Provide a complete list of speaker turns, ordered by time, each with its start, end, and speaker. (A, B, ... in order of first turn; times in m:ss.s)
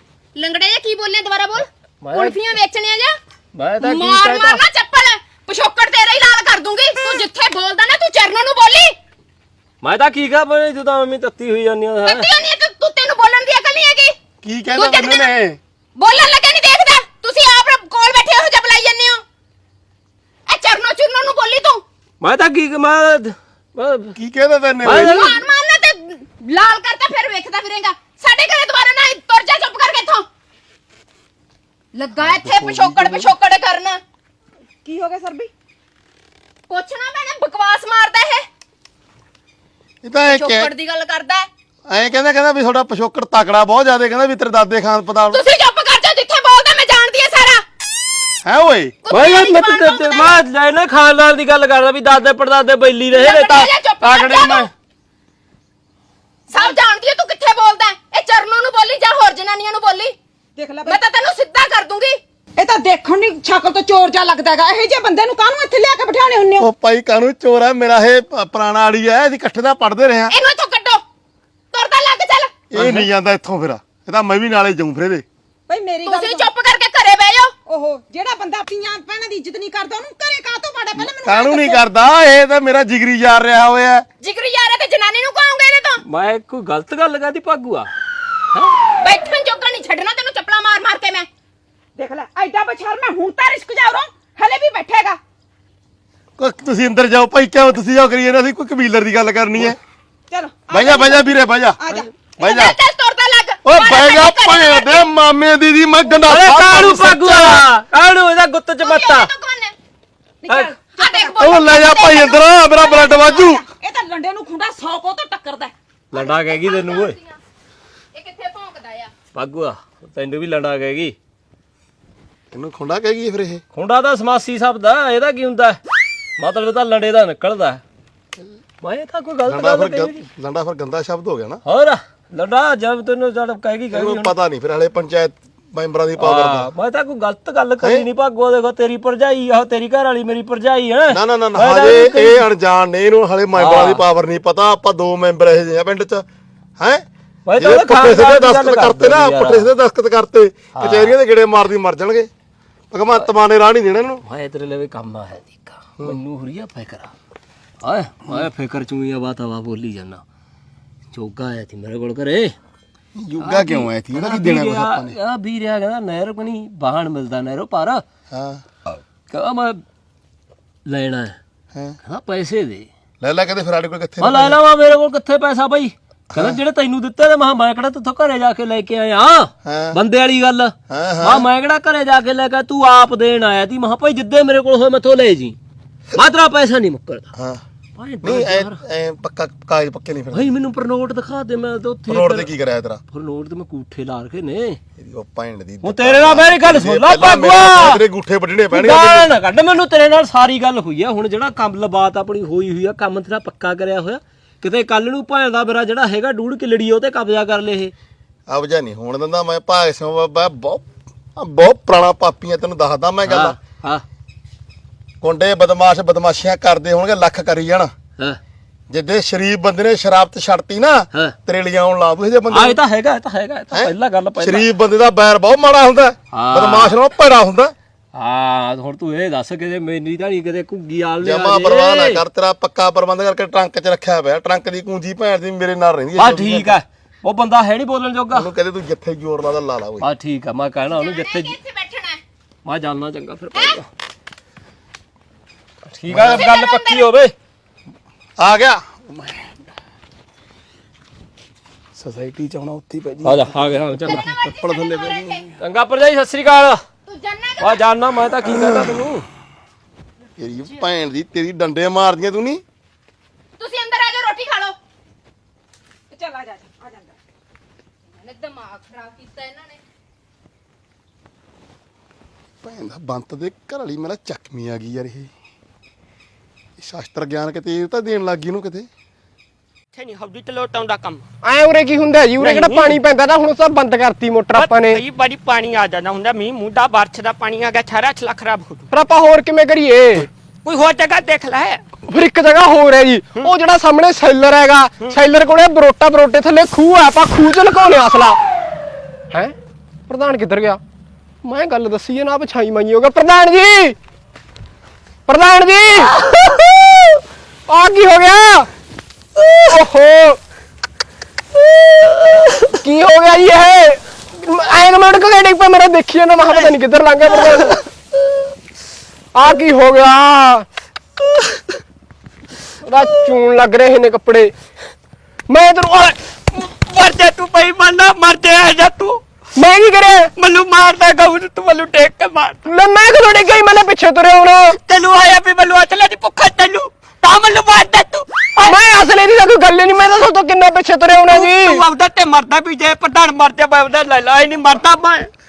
0:00.4-0:03.2 A
0:02.0-0:02.4 B
0:03.5-0:04.6 B
0:03.8-0:09.0 A
0:09.8-0:12.3 B
0:12.0-0:14.2 A
0:14.4-0:15.6 C
0:14.7-0:15.3 A
0:16.0-0:19.2 A
0:20.5-0:21.8 A
0:22.2-0:24.2 B
0:24.2-0:25.3 C
0:24.8-0:25.4 B
0:25.0-0:30.3 A
0:31.9-0:34.0 A
0:32.2-0:33.3 C
0:34.8-0:35.5 D
0:36.7-0:38.5 A
0:40.0-0:40.7 C
0:40.2-0:41.5 A
0:41.9-0:45.4 C
0:45.3-0:47.6 A
0:48.4-0:48.9 C
0:49.0-0:50.4 A
0:49.1-0:54.7 B
0:53.1-0:54.7 A
0:56.5-1:00.2 A
1:00.6-1:01.0 D
1:00.9-1:02.2 A
1:02.6-1:06.7 D
1:06.6-1:10.3 C
1:10.3-1:11.0 A
1:11.7-1:12.5 A
1:12.7-1:15.2 C
1:12.7-1:13.1 B
1:15.7-1:16.5 D
1:16.0-1:17.5 A
1:17.7-1:21.8 D
1:21.0-1:24.1 C
1:24.2-1:26.0 A
1:26.0-1:27.9 B
1:29.0-1:31.3 A
1:32.0-1:35.2 D
1:36.4-1:39.8 C
1:40.3-1:42.1 D
1:40.7-1:41.8 C
1:42.4-1:45.1 A
1:42.4-1:42.8 C
1:43.6-1:47.6 C
1:46.3-1:49.3 B
1:48.8-1:49.7 A
1:50.4-1:51.5 D
1:50.5-1:50.8 B
1:50.9-1:52.7 A
1:51.4-1:53.6 C
1:52.8-1:55.7 D
1:56.1-1:57.2 B
1:56.1-1:57.4 A
1:58.1-1:59.1 A
1:59.3-2:01.2 B
2:02.5-2:03.6 C
2:03.7-2:05.8 B
2:06.4-2:07.8 B
2:08.8-2:10.3 B
2:09.4-2:11.6 C
2:11.6-2:14.3 B
2:13.9-2:16.7 C
2:16.2-2:22.4 B
2:17.8-2:18.1 C
2:21.1-2:26.2 C
2:23.6-2:24.0 B
2:26.8-2:27.0 C
2:27.5-2:29.7 B
2:27.6-2:32.3 C
2:30.7-2:31.2 B
2:32.9-2:34.2 C
2:34.2-2:37.1 B
2:37.8-2:40.2 B
2:41.1-2:42.6 B
2:43.2-2:45.2 C
2:43.4-2:48.0 B
2:48.3-2:48.6 C
2:49.3-2:49.8 B
2:50.9-2:51.4 B
2:52.0-2:52.9 B
2:53.2-2:54.6 C
2:54.2-3:05.6 B
2:56.3-2:56.6 C
2:59.6-3:00.0 C
3:00.9-3:01.5 C
3:06.2-3:07.3 B
3:07.4-3:07.6 C
3:08.0-3:08.8 B
3:08.2-3:10.6 C
3:10.3-3:12.5 B
3:12.1-3:13.0 C
3:13.1-3:14.8 B
3:15.0-3:19.3 C
3:15.8-3:18.0 B
3:18.7-3:27.9 B
3:28.5-3:30.8 C
3:31.4-3:33.6 C
3:33.3-3:34.0 B
3:35.2-3:37.9 C
3:38.9-3:42.8 C
3:42.5-3:44.7 B
3:43.7-3:47.7 C
3:46.3-3:47.0 B
3:48.1-3:52.2 B
3:51.2-3:56.8 C
3:56.2-3:58.5 B
3:58.3-4:00.1 C
4:00.0-4:01.6 B
4:00.9-4:02.2 A
4:02.6-4:03.9 B
4:05.9-4:07.3 B
4:06.1-4:06.4 C
4:06.3-4:07.0 A
4:08.4-4:09.5 C
4:12.0-4:13.5 C
4:13.2-4:14.4 B
4:14.0-4:15.4 A
4:14.2-4:15.5 C
4:15.6-4:16.8 B
4:17.1-4:17.8 A
4:17.6-4:19.3 B
4:18.5-4:18.9 C
4:20.4-4:22.6 C
4:23.6-4:24.8 A
4:26.1-4:27.2 D
4:28.2-4:29.8 A
4:32.6-4:35.3 C
4:36.8-4:38.9 C
4:39.9-4:41.2 E
4:41.4-4:45.0 F
4:42.4-4:43.0 E
4:44.6-4:48.9 E
4:48.9-4:50.3 F
4:50.6-4:51.8 E
4:52.1-4:58.4 F
5:00.1-5:00.8 F
5:01.4-5:04.0 F
5:05.3-5:06.2 F
5:06.2-5:06.6 E
5:07.7-5:08.7 F
5:09.7-5:10.4 F
5:11.8-5:12.6 E
5:12.7-5:17.8 F
5:17.4-5:17.8 E
5:19.3-5:20.7 F
5:21.2-5:21.8 E
5:22.8-5:24.5 F
5:25.5-5:26.2 F
5:26.5-5:29.2 E
5:29.6-5:30.3 F
5:30.4-5:32.6 E
5:32.7-5:34.8 F
5:34.8-5:38.8 E
5:38.6-5:41.8 F
5:41.3-5:45.3 E